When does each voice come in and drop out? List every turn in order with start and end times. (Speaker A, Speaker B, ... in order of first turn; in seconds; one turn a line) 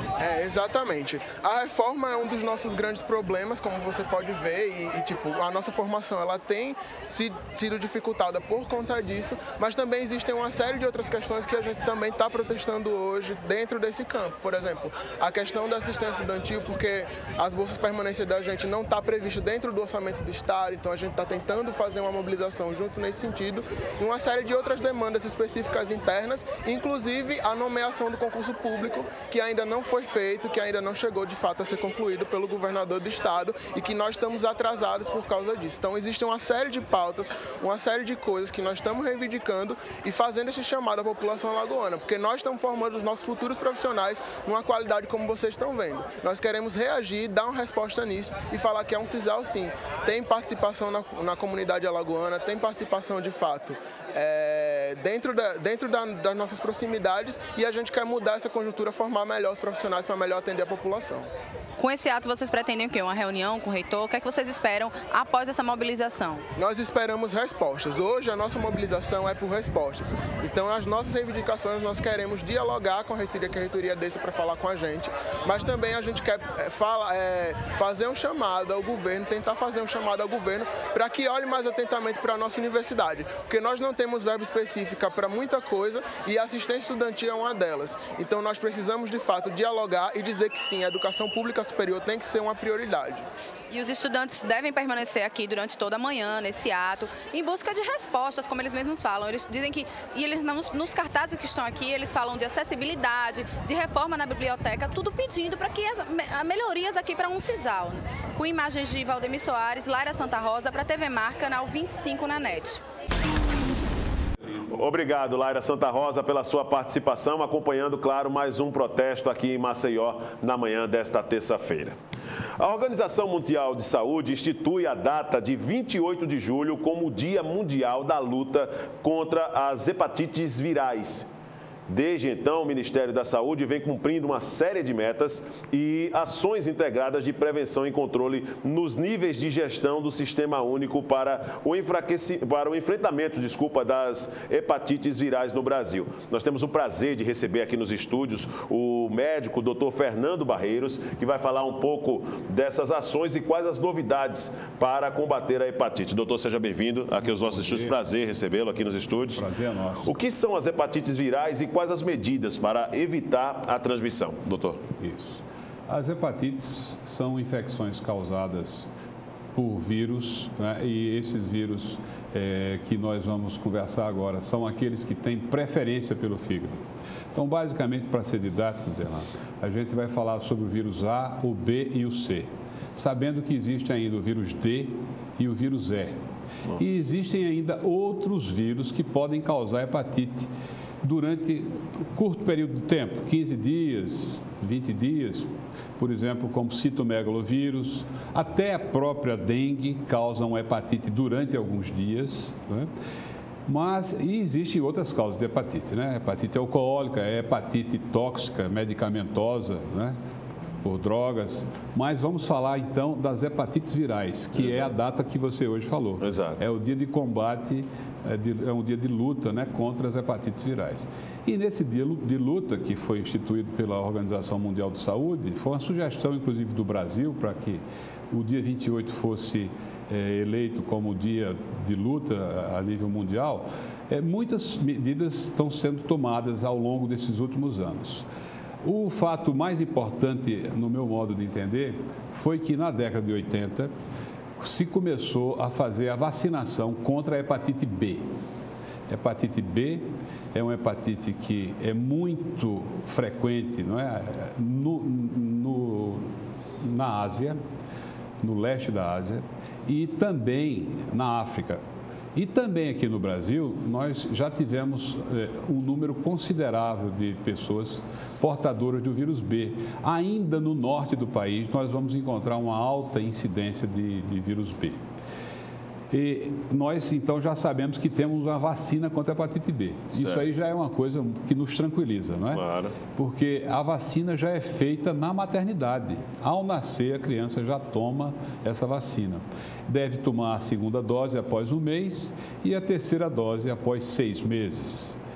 Speaker A: 0.2-61.3
Speaker B: 61.8-66.4
Speaker A: 66.6-93.2
Speaker B: 93.7-112.8
Speaker C: 114.7-122.0
Speaker C: 122.6-131.3
Speaker C: 131.9-159.4
Speaker D: 157.2-158.0
Speaker D: 159.3-160.1
Speaker C: 160.0-164.8
Speaker D: 165.0-168.9
Speaker D: 169.5-186.2
Speaker C: 186.7-186.9
Speaker D: 186.8-190.5
Speaker D: 191.0-202.9
Speaker D: 203.7-210.2
Speaker D: 210.8-238.3
Speaker C: 214.6-214.9
Speaker C: 216.2-216.6
Speaker D: 238.8-243.9
Speaker D: 244.6-248.3
Speaker D: 249.1-257.6
Speaker D: 258.4-261.8
Speaker D: 262.4-275.0
Speaker D: 276.1-295.2
Speaker C: 280.1-280.4
Speaker C: 282.5-282.9